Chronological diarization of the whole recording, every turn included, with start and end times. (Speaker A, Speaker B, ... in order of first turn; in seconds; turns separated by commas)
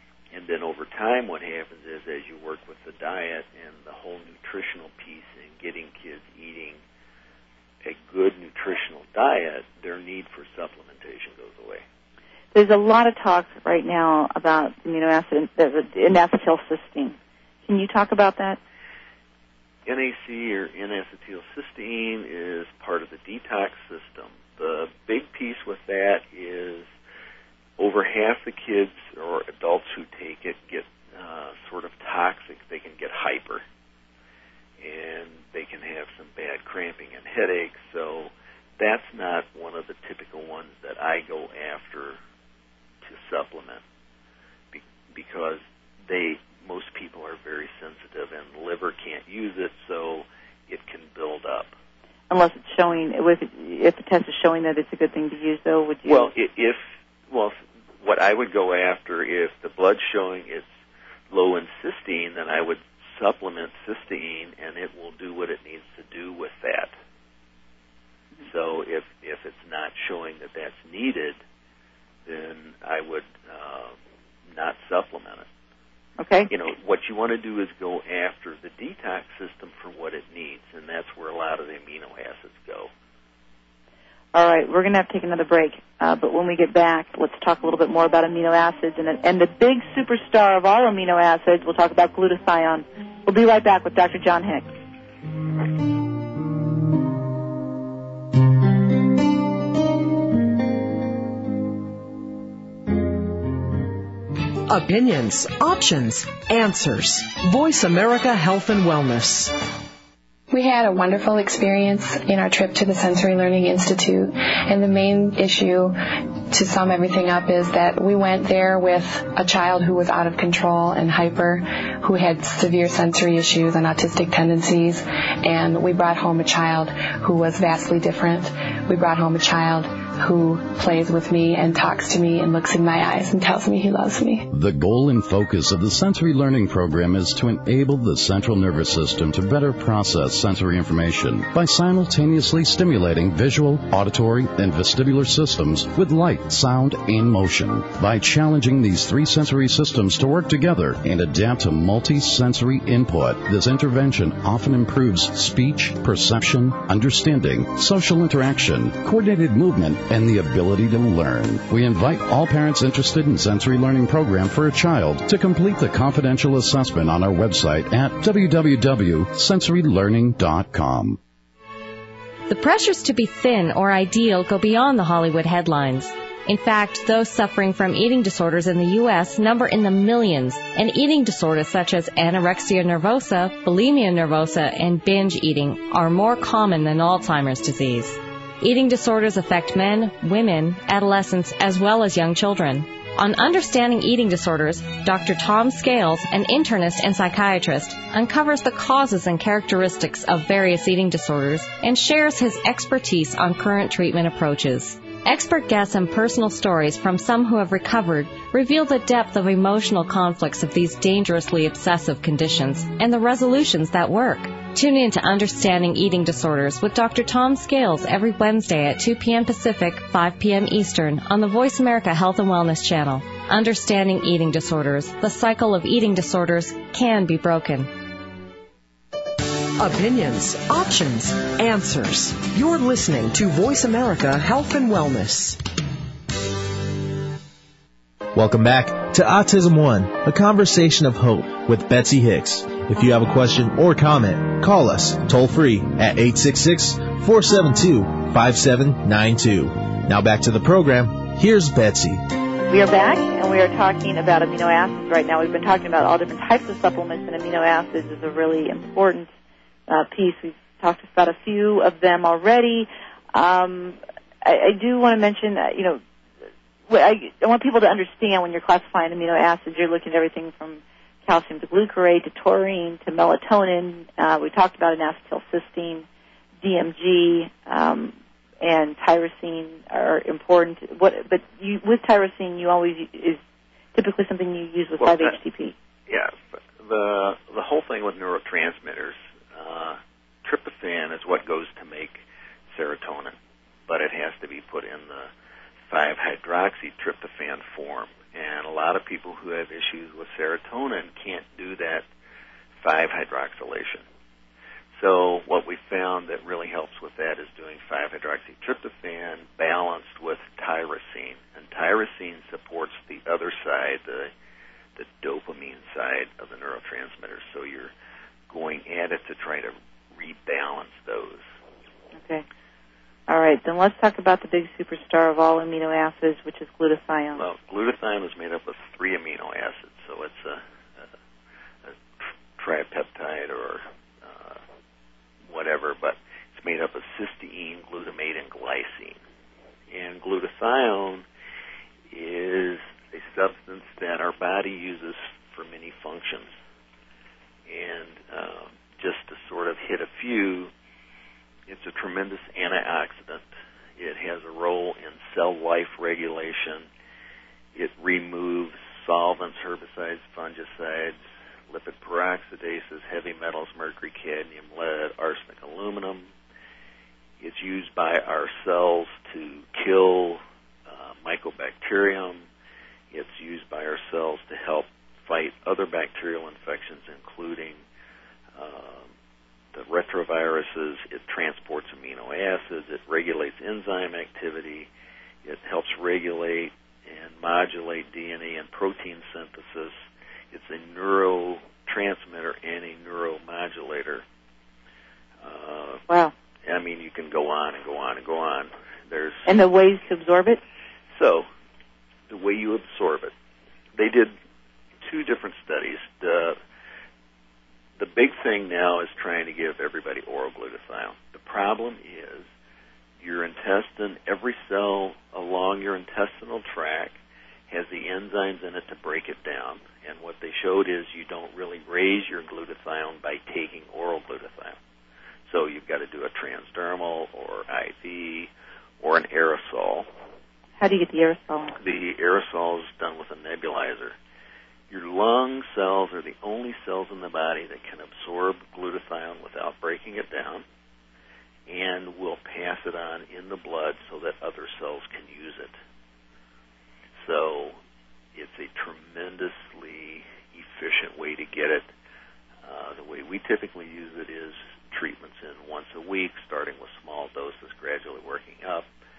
Speaker A: 0.3-6.8, Speaker A: 7.8-11.8, Speaker B: 12.5-18.6, Speaker A: 19.9-26.9, Speaker A: 27.8-33.6, Speaker A: 34.8-42.2, Speaker A: 43.0-43.8, Speaker A: 44.7-51.7, Speaker B: 52.3-56.3, Speaker A: 56.0-60.7, Speaker A: 61.3-66.9, Speaker A: 68.4-71.4, Speaker A: 72.2-73.9, Speaker A: 74.5-75.5, Speaker B: 76.2-76.5, Speaker A: 76.5-82.9, Speaker B: 84.3-94.7, Speaker C: 104.7-109.5, Speaker D: 110.5-134.5, Speaker E: 134.5-171.2, Speaker F: 172.5-227.9, Speaker C: 229.8-235.6, Speaker G: 238.3-252.2, Speaker B: 252.7-259.3, Speaker B: 259.9-266.0, Speaker B: 266.9-276.1, Speaker B: 276.6-283.4, Speaker B: 283.9-285.7, Speaker A: 285.0-285.4, Speaker A: 286.1-293.4, Speaker A: 293.9-295.3, Speaker A: 295.9-302.0, Speaker A: 302.8-304.0, Speaker A: 304.9-314.3, Speaker A: 314.9-317.9, Speaker A: 318.5-321.4, Speaker B: 322.2-322.4, Speaker B: 323.3-327.4, Speaker A: 327.4-331.0, Speaker A: 332.6-334.6, Speaker A: 335.5-339.2, Speaker A: 339.9-341.2, Speaker A: 342.1-346.5, Speaker A: 347.7-350.7, Speaker A: 351.7-356.9, Speaker A: 357.7-361.2, Speaker A: 361.7-366.3, Speaker A: 367.4-372.4, Speaker A: 373.1-377.8, Speaker A: 378.5-379.1, Speaker A: 379.7-384.9, Speaker A: 385.4-390.0, Speaker A: 390.5-394.2, Speaker A: 395.4-396.0, Speaker A: 396.6-399.5, Speaker B: 399.4-400.6, Speaker A: 401.1-401.5, Speaker A: 402.3-403.3, Speaker A: 403.9-404.3, Speaker A: 405.0-406.6, Speaker A: 408.0-412.5, Speaker A: 413.2-417.2, Speaker A: 417.7-424.8, Speaker A: 425.4-428.5, Speaker A: 429.0-430.1, Speaker B: 430.8-431.7, Speaker A: 431.8-434.1, Speaker A: 434.9-440.6, Speaker A: 441.7-445.7, Speaker A: 447.2-447.8, Speaker A: 448.3-451.9, Speaker A: 452.6-458.9